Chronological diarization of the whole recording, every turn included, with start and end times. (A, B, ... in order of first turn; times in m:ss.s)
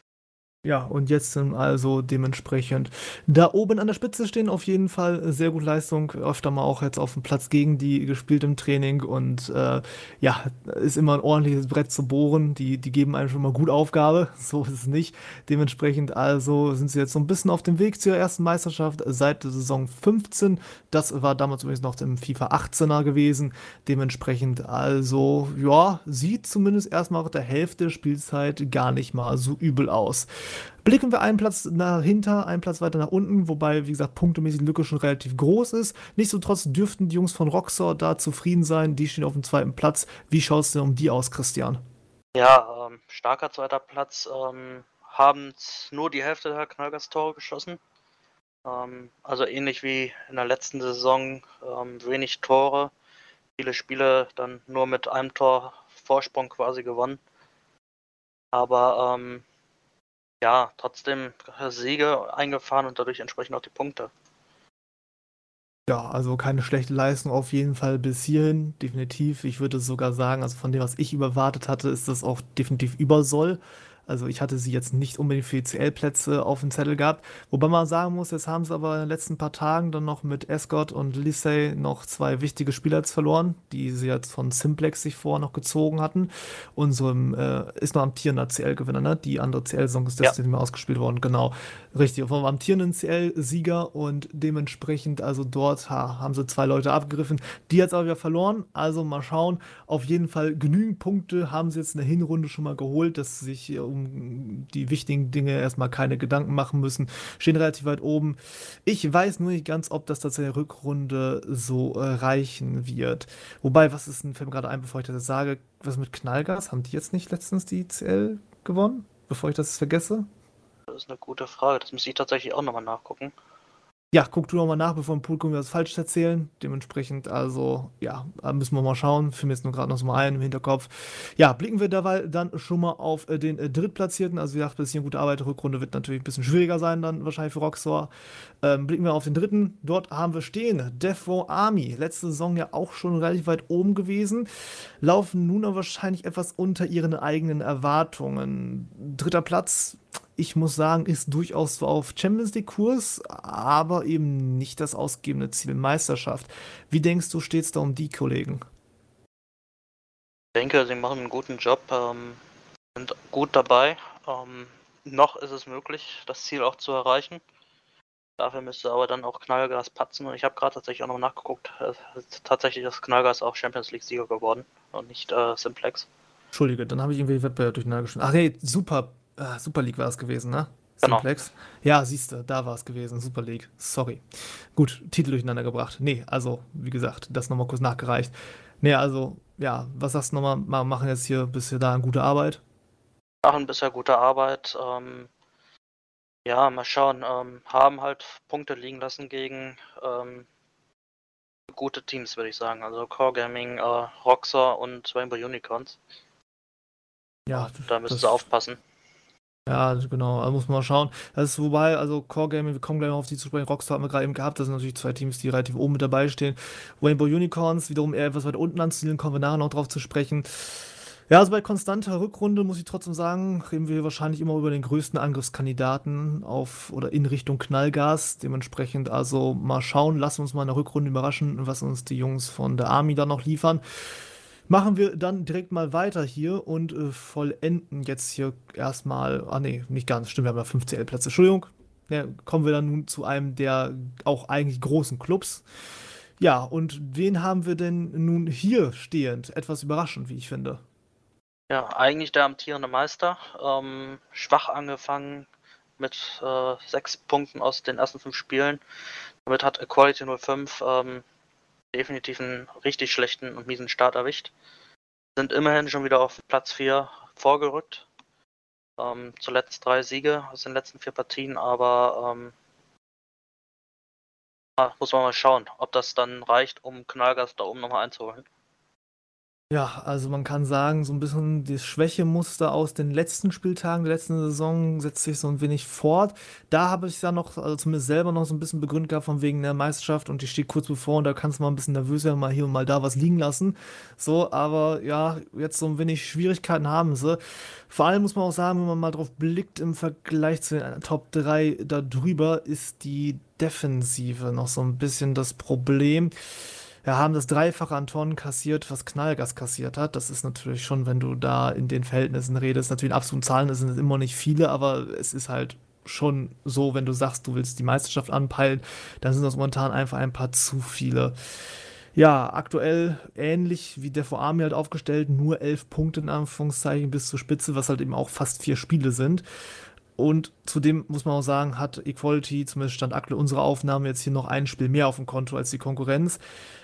0:00.6-0:41.8 A
0:42.3-0:47.8 B
0:48.6-0:52.9 B
0:53.6-0:57.2 B
0:58.5-0:59.4 B
1:00.4-1:04.1 B
1:05.9-2:00.3 A
2:00.9-2:03.3 B
2:04.1-2:18.1 A
2:18.6-2:24.5 A
2:25.0-2:38.6 A
2:40.5-2:42.4 B
2:42.9-2:47.4 B
2:48.4-2:56.1 B
2:56.5-3:12.6 A
3:13.4-3:15.3 B
3:16.4-3:20.5 B
3:21.7-3:26.0 B
3:27.5-3:28.4 A
3:27.5-3:28.8 B
3:29.7-3:53.8 A
3:54.7-4:05.6 A
4:06.4-4:10.8 A
4:11.7-4:15.5 B
4:16.0-4:18.8 B
4:19.4-4:21.2 B
4:21.9-4:24.5 B
4:25.4-4:28.0 B
4:29.0-4:32.5 B
4:34.8-4:38.4 B
4:39.7-5:06.3 A
5:07.0-5:21.3 A
5:22.1-5:29.4 A
5:30.2-5:36.4 A